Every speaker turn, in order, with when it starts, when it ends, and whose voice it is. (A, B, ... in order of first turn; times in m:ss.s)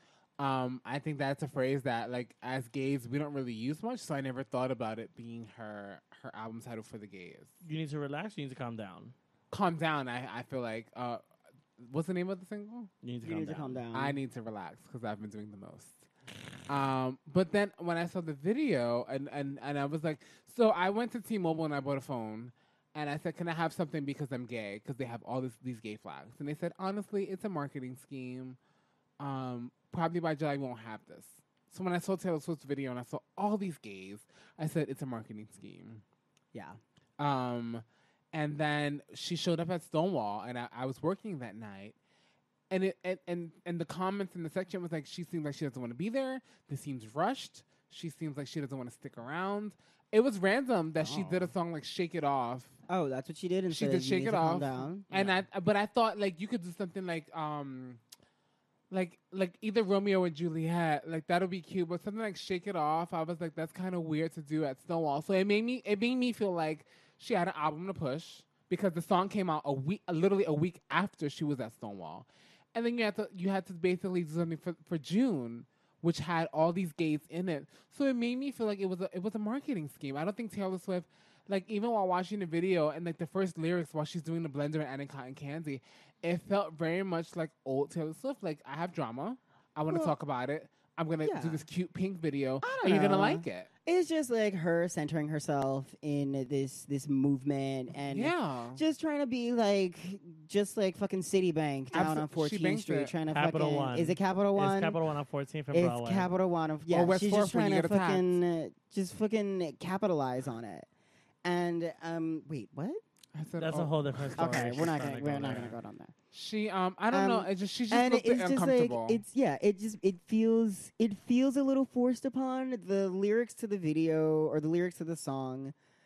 0:00.4-0:07.5 A
0:07.6-0:09.1 B
0:09.5-0:11.2 A
0:11.8-0:12.9 A
0:13.0-0:13.8 B
0:13.2-0:14.2 C
0:13.9-0:16.0 A
0:16.7-0:28.6 A
0:29.2-0:36.0 A
0:36.5-0:36.8 C
0:37.2-0:42.0 A
0:42.7-0:52.7 A
0:51.0-0:51.5 C
0:52.9-0:55.1 C
0:53.7-0:58.0 A
0:58.9-1:33.7 A
1:31.2-1:31.6 C
1:32.6-1:45.0 C
1:38.1-1:38.8 A
1:41.9-1:43.1 A
1:43.3-1:46.3 B
1:45.7-1:50.9 C
1:46.9-1:48.4 A
1:51.4-1:53.0 C
1:53.3-1:54.8 A
1:53.6-1:55.8 B
1:54.4-1:56.1 C
1:56.3-1:59.2 A
1:57.1-2:05.7 C